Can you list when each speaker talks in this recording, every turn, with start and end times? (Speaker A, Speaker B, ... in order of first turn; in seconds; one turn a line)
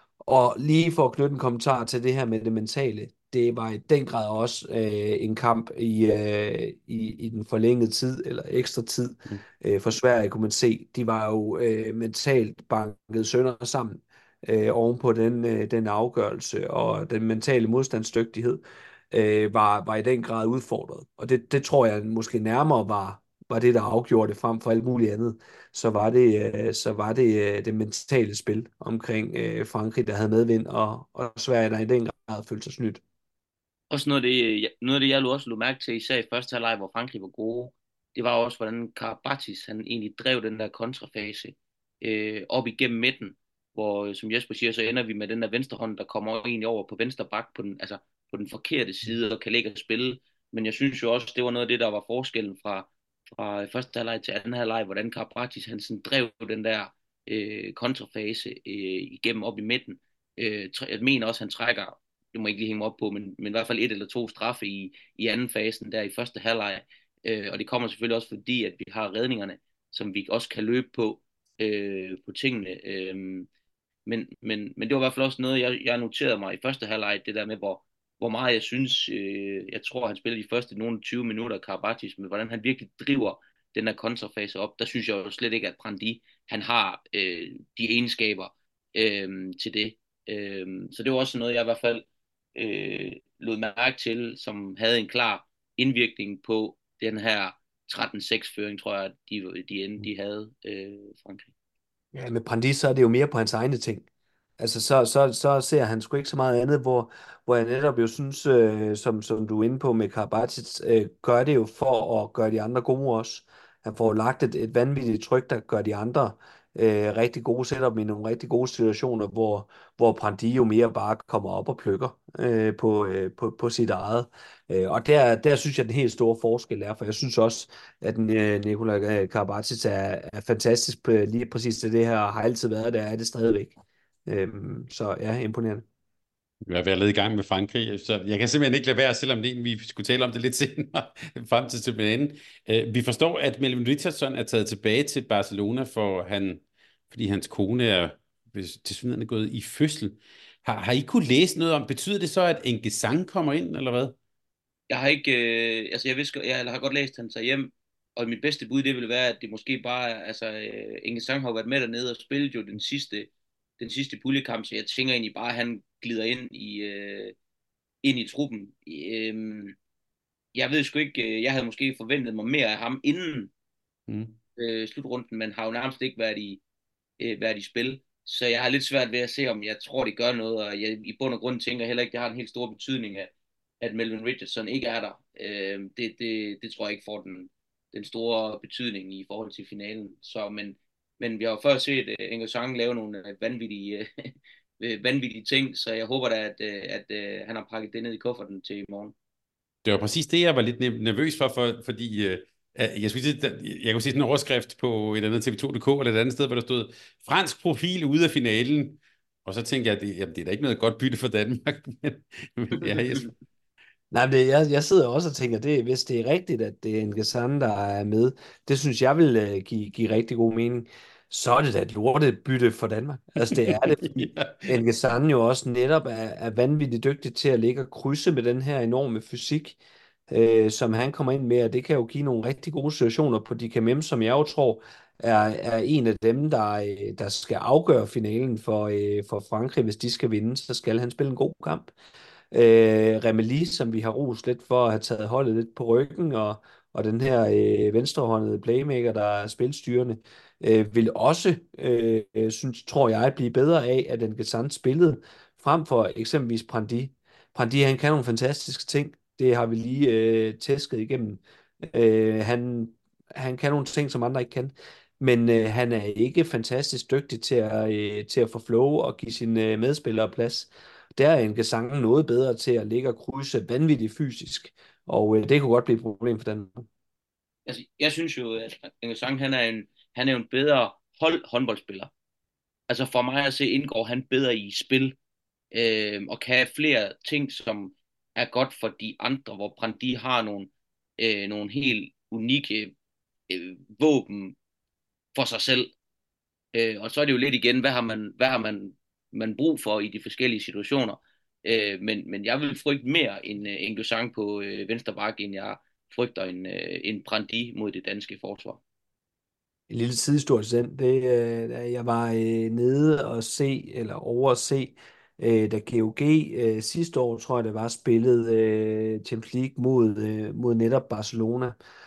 Speaker A: 0.2-33.0
Speaker B: 33.9-73.5
Speaker B: 74.1-101.5
Speaker A: 102.1-104.1
Speaker A: 104.6-133.8
Speaker A: 134.3-135.8
Speaker C: 136.7-154.2
Speaker B: 154.9-167.3
Speaker B: 168.0-169.8
Speaker B: 170.5-173.5
Speaker C: 174.1-174.3
Speaker B: 174.6-176.6
Speaker B: 177.2-199.1
Speaker C: 199.8-213.3
Speaker A: 214.1-229.8
Speaker C: 223.5-224.7
Speaker A: 230.3-241.9
Speaker A: 242.5-276.9
Speaker B: 277.7-282.1
Speaker B: 282.9-285.2
Speaker B: 285.7-292.9
Speaker B: 293.5-294.6
Speaker B: 295.4-295.9
Speaker B: 296.7-308.8
Speaker A: 309.9-321.8